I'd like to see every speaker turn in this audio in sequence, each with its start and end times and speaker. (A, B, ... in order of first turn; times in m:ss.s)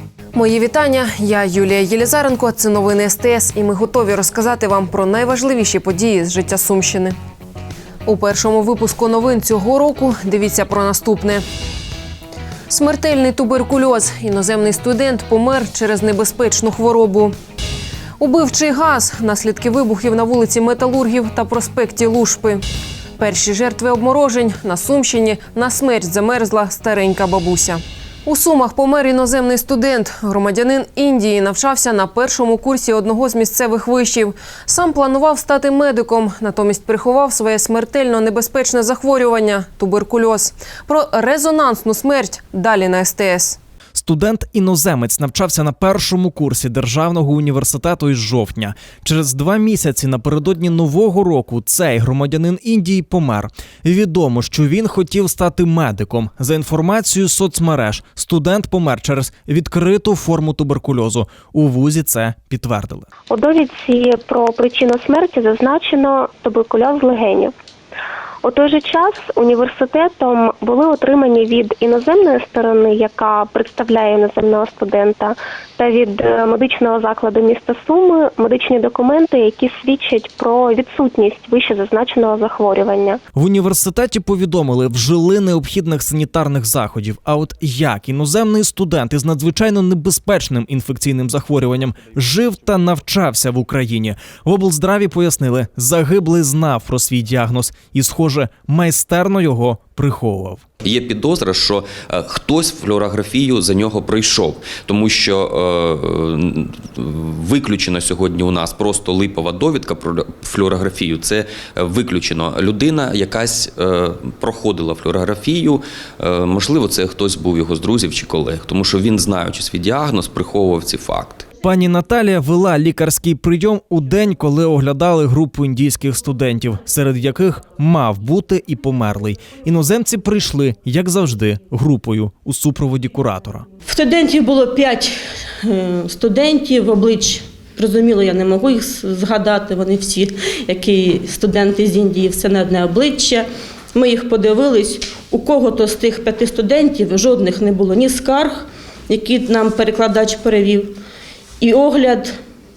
0:00.3-0:07.1 A
0:08.0-0:11.4 A
0:12.7-0:17.3 A
0:18.2-0:22.6 A
0:23.2-0:43.6 A
0:44.0-1:03.1 B
1:03.3-1:07.5 C
1:08.4-1:23.2 C
1:23.3-1:40.6 B
1:40.8-2:01.4 D
2:01.6-2:13.6 B
2:13.8-2:31.0 E
2:31.6-2:32.4 E